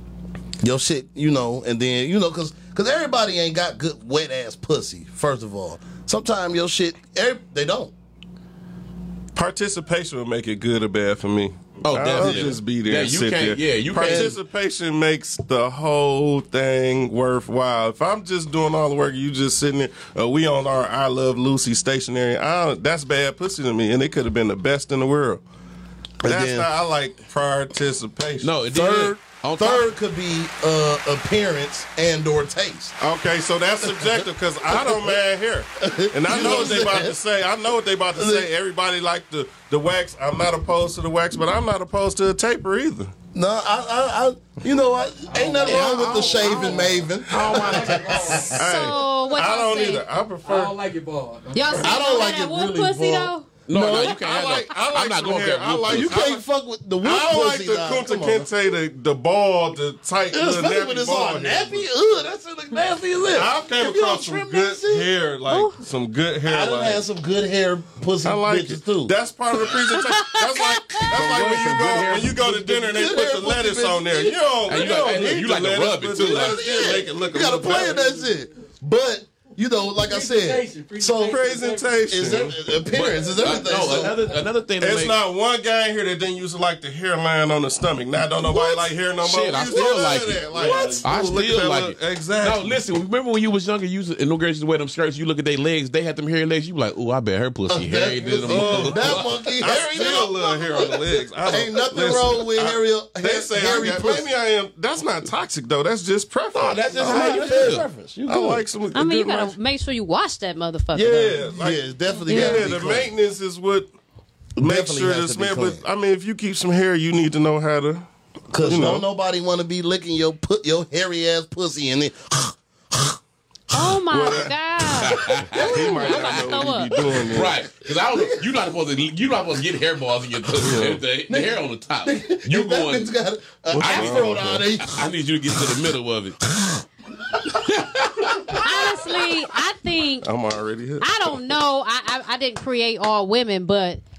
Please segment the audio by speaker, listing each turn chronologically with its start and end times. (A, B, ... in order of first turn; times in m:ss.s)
0:00.6-0:07.9 A
0:09.3-0:25.4 B
0:11.8-0:14.4 C
0:12.2-0:12.6 A
0:14.0-0:14.4 A
0:26.2-0:26.7 A
0:26.2-0:28.5 B
0:28.4-0:29.9 C
0:28.7-0:33.0 A
0:33.0-0:43.1 B
0:33.8-0:35.2 A
0:35.8-0:37.2 A
0:38.2-0:38.5 A
0:43.3-0:48.6 A
0:45.3-0:48.7 D
0:45.6-0:48.2 C
0:48.5-0:50.0 E
0:48.6-0:50.8 B
0:50.4-0:52.0 D
0:51.5-0:53.5 E
0:51.8-0:54.2 A
0:53.7-0:56.2 C
0:53.8-0:56.4 B
0:55.9-0:58.5 A
0:57.0-1:01.9 B
1:00.3-1:05.1 A
1:03.3-1:07.0 B
1:05.5-1:05.8 E
1:06.4-1:09.1 A
1:08.2-1:18.0 B
1:09.9-1:10.9 E
1:11.0-1:13.2 C
1:11.2-1:11.9 A
1:12.9-1:14.4 A
1:14.7-1:16.6 C
1:16.2-1:21.4 A
1:17.7-1:18.4 D
1:19.9-1:22.1 D
1:21.3-1:22.6 B
1:22.1-1:24.2 A
1:22.9-1:25.2 C
1:23.3-1:24.3 D
1:24.8-1:32.8 B
1:29.2-1:39.4 C
1:29.7-1:31.4 A
1:37.7-1:44.3 A
1:38.5-1:47.7 B
1:46.5-1:47.9 C
1:47.0-1:48.6 A
1:48.3-1:49.6 B
1:48.9-1:51.4 E
1:50.9-1:53.9 B
1:51.5-1:53.1 A
1:52.3-1:52.6 E
1:54.6-1:55.8 A
1:54.6-1:58.1 B
1:58.5-2:03.2 A
1:58.6-1:59.0 B
2:03.7-2:07.1 E
2:04.0-2:04.5 B
2:05.0-2:06.5 C
2:05.5-2:07.6 B
2:07.3-2:13.1 C
2:08.0-2:08.4 A
2:10.6-2:11.0 B
2:11.3-2:15.0 A
2:13.7-2:14.6 B
2:13.7-2:16.4 C
2:17.7-2:18.4 C
2:18.6-2:20.3 E
2:20.2-2:21.4 B
2:21.0-2:24.0 E